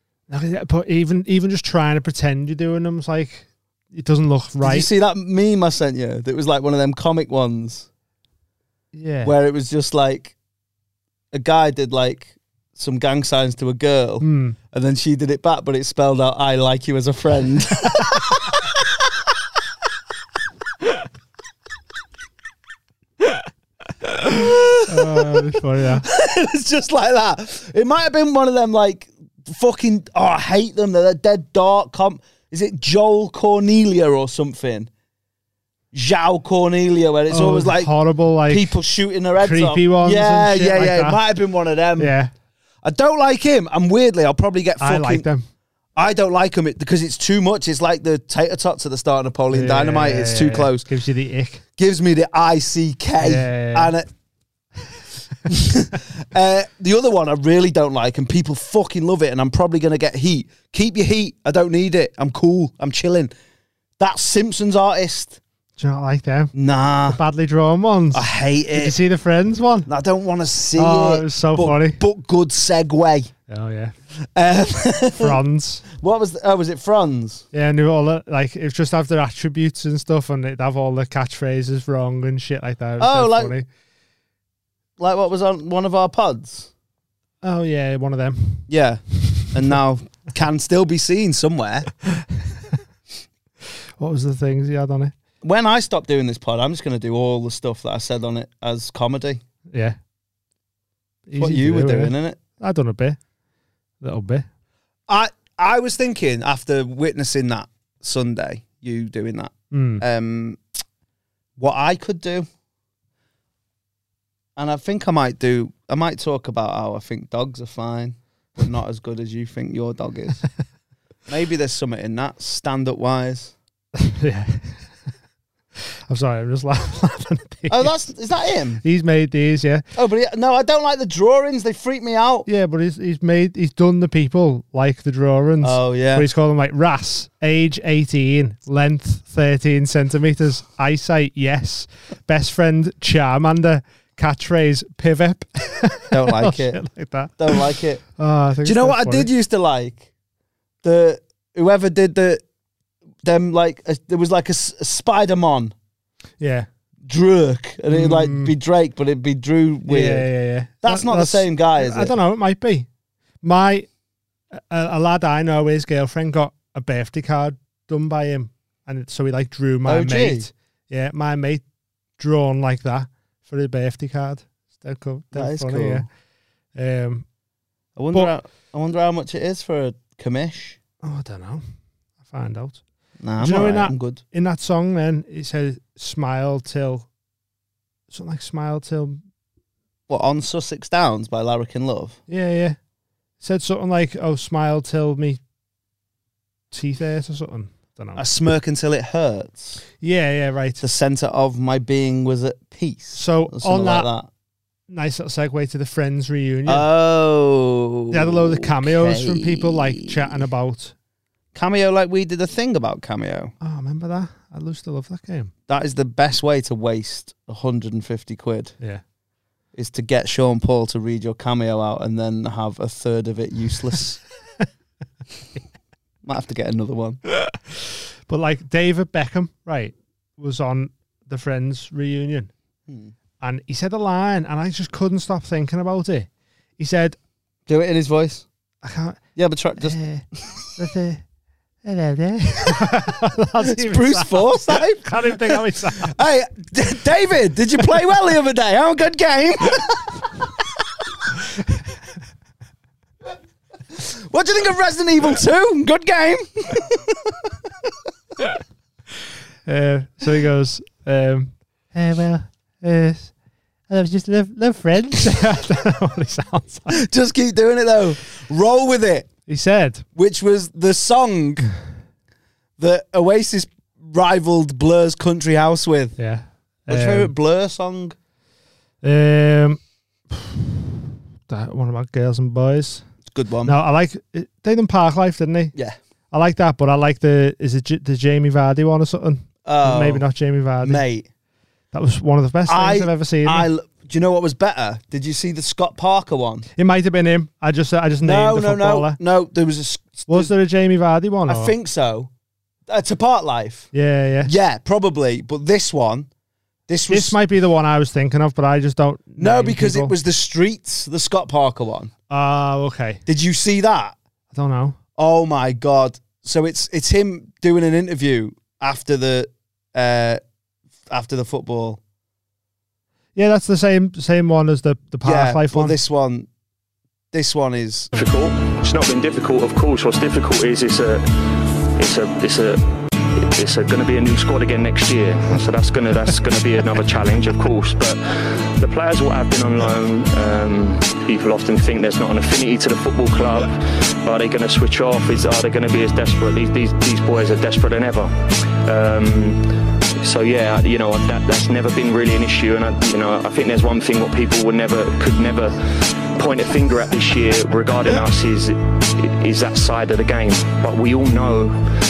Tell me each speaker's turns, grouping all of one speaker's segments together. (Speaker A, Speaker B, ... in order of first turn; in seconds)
Speaker A: 0.3-4.9, 8.9-9.3, 14.2-14.6, 24.9-26.1, 37.3-38.8, 39.4-41.2, 42.0-42.3, 44.8-45.5, 49.5-51.6, 53.2-53.9, 65.8-66.5, 67.1-69.9, 70.7-72.0, 73.5-73.9, 75.2-75.8, 77.5-83.7, 87.4-88.7, 94.0-95.1, 99.7-100.0, 101.3-103.2, 104.0-104.5, 109.7-110.0, 124.0-124.9, 126.1-128.1, 128.8-129.8, 132.4-149.3, 156.4-156.7, 157.9-158.5, 159.9-162.9, 163.4-163.9, 164.6-171.6, 172.2-176.1, 176.7-177.2, 181.0-181.6, 182.2-182.8, 183.4-187.1, 188.1-189.2, 192.3-192.8, 193.4-195.4, 196.7-198.2, 200.0-200.8, 203.1-204.1, 204.9-206.9, 208.1-210.9, 213.6-215.5, 228.3-232.5, 233.4-237.2, 238.8-239.2, 239.8-240.2, 240.8-241.2, 241.8-246.2, 259.7-263.3, 263.9-267.0, 269.5-270.0, 276.2-277.3, 279.0-279.8, 280.3-280.7, 281.5-283.0, 283.6-285.7, 286.3-291.0, 291.9-293.7, 296.8-299.2, 300.3-301.7, 303.9-304.5, 307.1-310.1, 312.3-313.2, 314.5-315.0, 323.4-326.0
Speaker B: 4.6-7.9, 9.2-10.3, 11.3-18.4, 24.3-25.3, 26.0-34.9, 35.9-37.9, 38.5-42.1, 42.8-45.3, 46.0-50.9, 51.8-54.0, 55.5-63.3, 64.0-65.4, 66.5-67.2, 68.1-69.0, 69.9-73.3, 74.3-75.4, 76.0-77.5, 83.0-83.5, 85.0-86.7, 88.7-91.9, 95.4-99.4, 101.3-102.4, 105.1-110.6, 111.6-112.5, 114.6-120.4, 121.3-123.5, 127.7-128.8, 129.9-132.5, 135.6-136.3, 146.1-146.8, 147.4-148.0, 148.6-150.1, 150.8-152.4, 153.2-155.7, 157.1-160.3, 160.8-162.1, 169.8-170.5, 175.3-176.0, 177.9-180.8, 183.2-184.2, 190.1-192.2, 198.2-199.8, 200.8-204.3, 206.7-210.4, 211.5-213.5, 215.7-218.8, 219.7-224.2, 226.2-227.2, 232.9-233.1, 237.7-238.5, 239.3-240.6, 243.6-249.9, 254.3-257.1, 266.9-269.3, 270.1-271.7, 272.8-276.2, 276.9-278.1, 283.2-283.8, 289.6-290.3, 290.8-291.3, 292.7-296.7, 298.2-300.5, 301.5-302.3, 302.9-303.9, 304.4-306.3, 306.9-307.4, 309.4-312.1, 313.2-314.2, 315.2-320.4, 321.1-322.0, 325.2-326.5, 327.3-328.1
Speaker C: 328.1-331.2, 332.0-332.8, 333.4-349.6, 350.2-355.8, 356.3-361.8